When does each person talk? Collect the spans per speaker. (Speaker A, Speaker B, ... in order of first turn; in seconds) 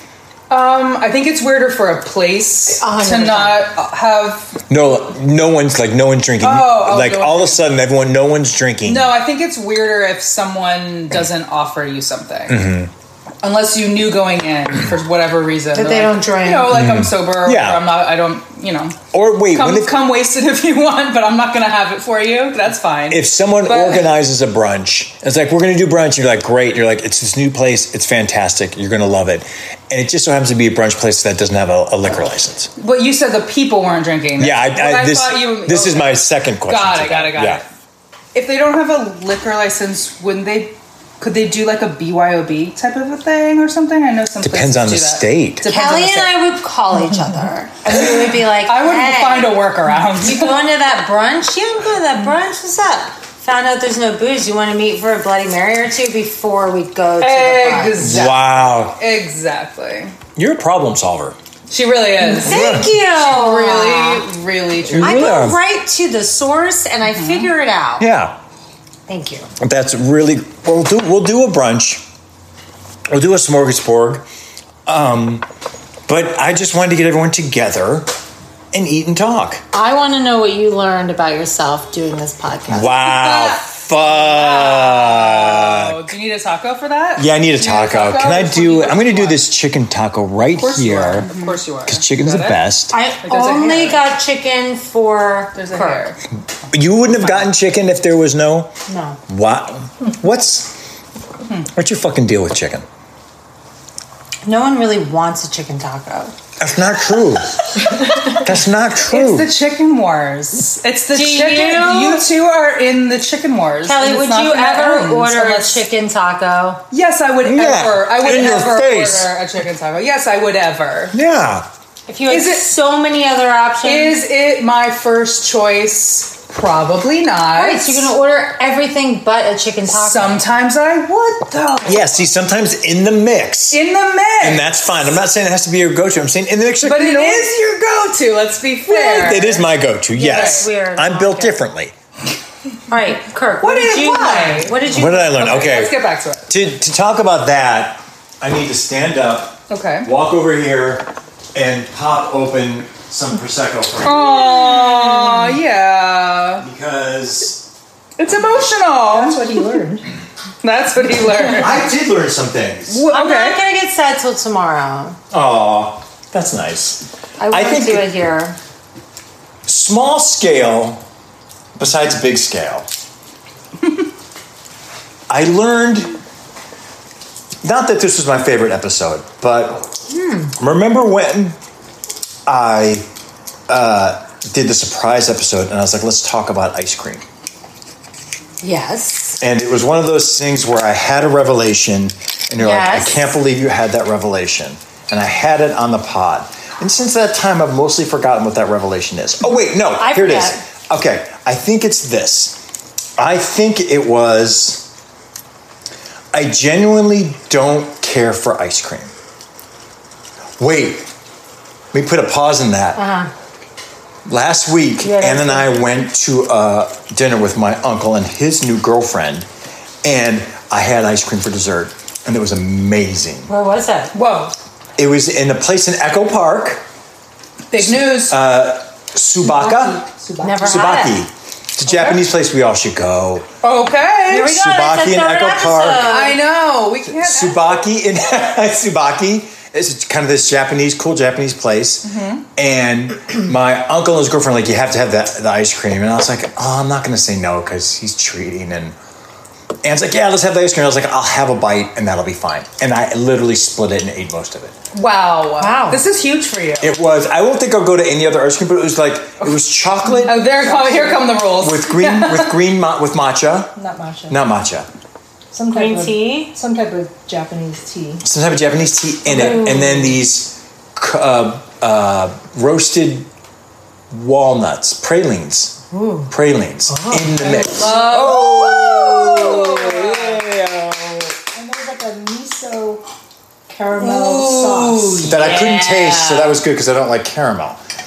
Speaker A: 0.5-4.6, 6.4-7.7, 8.8-12.6, 13.4-24.1, 32.8-37.6, 38.3-46.4, 48.6-50.6, 57.2-60.1, 61.7-65.4, 67.1-67.5, 84.3-89.4, 90.5-92.6, 93.2-94.0, 95.5-96.2, 97.0-97.5, 109.0-115.8, 116.9-121.2, 122.3-122.7, 123.8-128.1, 129.9-132.2, 133.7-134.6, 136.8-139.7, 140.2-140.7, 143.6-146.5, 149.7-150.1, 154.0-156.7, 158.2-159.4, 160.6-161.8, 162.9-163.6, 224.1-224.5, 227.7-228.4, 231.8-232.2, 233.6-234.6, 236.0-237.7, 242.0-242.4, 254.9-256.9, 260.2-262.6, 277.4-280.4, 284.0-285.7
Speaker B: 2.8-3.7, 15.7-16.8, 45.7-49.6, 50.2-58.1, 62.2-64.3, 65.0-68.1, 69.1-69.5, 79.7-83.6, 91.2-91.5, 92.9-96.1, 98.9-99.2, 104.4-106.3, 111.1-112.2, 113.8-116.8, 122.1-124.2, 127.5-130.4, 140.1-141.6, 142.9-145.5, 163.1-165.2, 167.4-168.6, 180.1-180.5, 188.6-189.4, 192.6-193.3, 199.9-200.6, 212.9-213.3, 215.0-215.7, 223.5-224.1, 230.4-231.2, 234.3-236.4, 255.6-256.0, 265.7-266.5, 269.3-270.1, 275.9-276.3, 285.2-286.5
Speaker C: 4.7-9.1, 12.5-12.9, 16.7-17.8, 19.1-19.9, 23.1-32.7, 34.4-37.6, 44.4-45.6, 58.0-59.0, 60.4-61.4, 62.4-62.9, 64.9-65.6, 68.0-68.3, 69.6-72.0, 73.1-74.3, 74.8-75.5, 76.1-78.1, 78.7-79.6, 82.7-86.1, 87.2-91.3, 91.8-92.9, 96.7-98.7, 99.3-100.8, 101.7-102.8, 106.6-107.7, 108.2-109.5, 117.4-119.3, 121.1-121.7, 131.8-133.8, 134.4-137.5, 138.9-141.9, 144.9-145.9, 146.5-154.5, 156.6-157.7, 161.6-163.0, 165.3-168.1, 169.7-171.0, 171.8-172.9, 175.3-176.2, 177.6-179.9, 180.6-181.6, 182.4-183.1, 183.7-187.2, 189.4-202.6, 203.2-204.9, 206.3-209.1, 210.6-211.1, 211.9-213.0, 214.2-219.5, 220.0-223.5, 225.0-226.8, 227.8-230.0, 230.6-233.5, 234.4-236.2, 237.1-248.9, 249.8-254.7, 256.8-260.5, 261.6-263.8, 264.3-264.9, 268.2-273.3, 274.1-281.2, 285.2-287.8
Speaker D: 159.1-160.1, 229.4-230.6, 260.2-261.4, 263.8-264.4, 265.5-268.2, 276.9-280.5, 281.4-283.0, 283.7-285.4